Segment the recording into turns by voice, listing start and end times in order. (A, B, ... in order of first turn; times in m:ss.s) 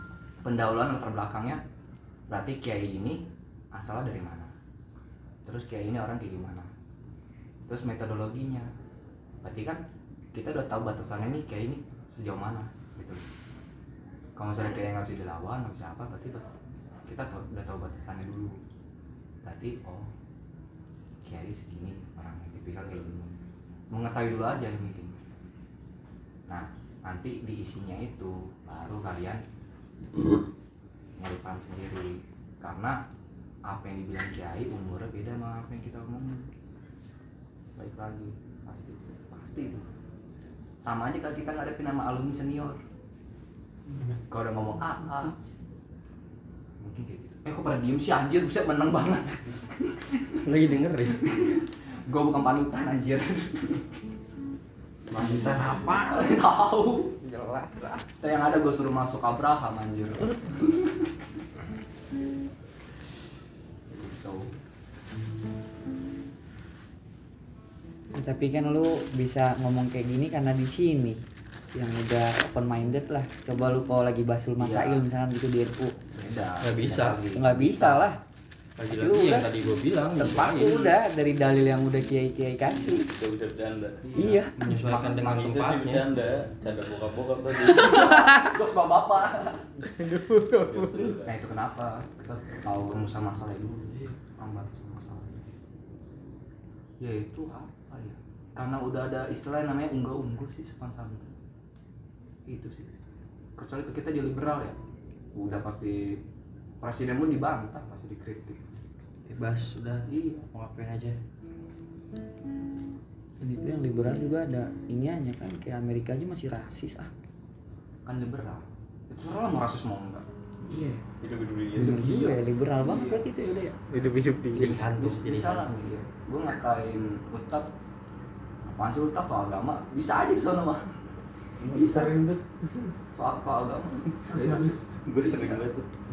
0:00.4-0:01.6 A
0:02.3-0:04.5 A
0:05.4-0:06.7 A
0:07.6-0:08.7 A
0:09.4-0:09.8 A
0:10.3-0:13.2 A
0:14.4-0:18.6 A
0:19.4-0:20.1 A
0:21.2-0:23.4 A
0:23.9-0:25.2 A
0:26.5-0:29.4 A
0:31.2-0:33.0 A
0:33.6-0:36.5 A
0:37.8-0:39.9 A
0:40.8-0:42.8 A
0:44.2-0:45.4 A
0:46.8-0:50.4 A
0:50.4-0:51.3 B
0:51.2-0:53.9 A
0:55.1-0:57.1 A
0:57.2-0:58.0 C
0:58.2-1:01.1 A
1:03.9-1:04.5 A
1:08.1-1:11.2 C
1:11.7-1:15.9 C
1:16.1-1:18.0 A
1:16.6-1:17.2 B
1:17.4-1:18.2 C
1:18.8-1:20.8 B
1:18.9-1:19.5 C
1:20.2-1:23.1 C
1:23.1-1:24.1 D
1:24.1-1:24.5 C
1:24.2-1:26.0 B
1:24.8-1:25.5 A
1:25.3-1:28.2 D
1:27.8-1:29.7 A
1:29.8-1:31.2 E
1:30.6-1:31.3 D
1:31.2-1:35.5 A
1:37.0-1:41.4 A
1:42.5-1:43.0 A
1:43.6-1:44.8 A
1:45.3-1:46.2 A
1:46.8-1:48.9 A
1:49.3-1:51.2 B
1:53.4-1:57.1 C
1:58.0-2:00.2 A
2:00.7-2:01.0 C
2:01.2-2:02.3 D
2:01.7-2:03.8 C
2:02.8-2:03.2 A
2:03.9-2:04.7 E
2:04.6-2:05.6 B
2:04.6-2:07.7 A
2:08.6-2:10.9 A
2:11.6-2:12.4 D
2:11.7-2:12.1 A
2:13.1-2:15.7 A
2:14.4-2:15.9 D